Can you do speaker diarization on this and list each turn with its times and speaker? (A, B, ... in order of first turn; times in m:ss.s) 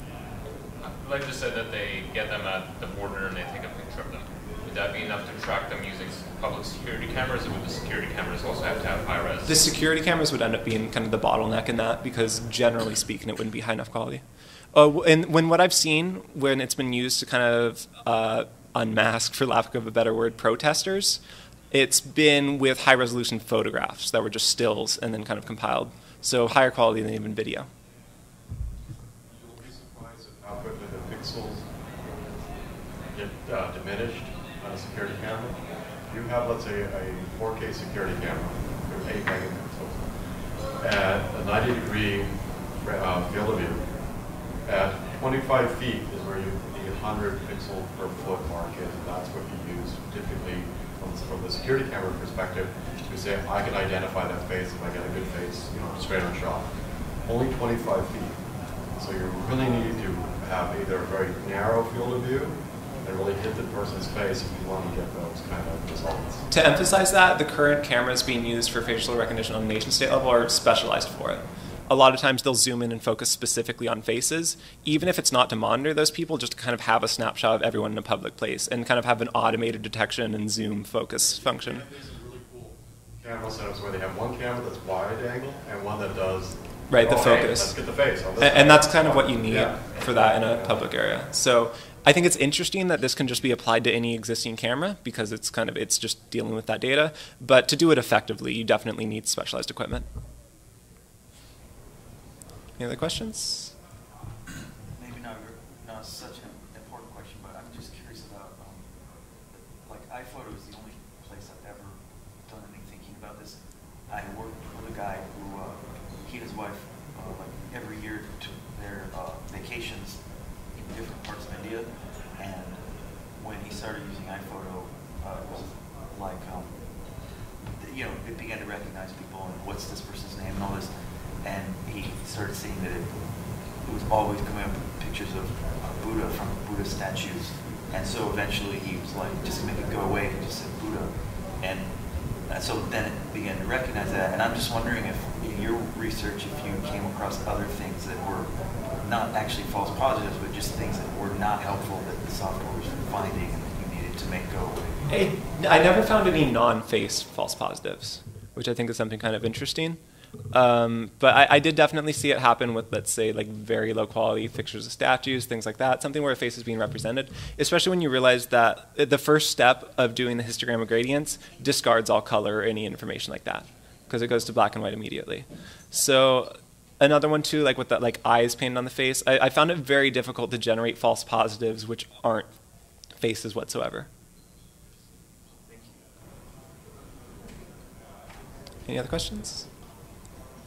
0:00.8-0:09.6 A
0:09.5-0:14.2 B
0:14.7-0:21.2 B
0:21.7-0:27.7 B
0:29.3-0:32.5 C
0:33.1-0:40.2 C
0:40.7-0:58.4 C
0:59.0-1:06.5 C
1:06.5-1:21.8 B
1:21.4-1:30.8 C
1:26.9-1:27.8 B
1:28.4-1:40.1 B
1:42.8-1:43.7 B
1:44.9-2:13.2 D
2:13.8-2:21.9 D
2:22.5-2:35.1 D
2:35.1-2:40.0 B
2:40.5-3:02.5 B
3:03.2-3:04.1 B
3:08.9-3:09.7 B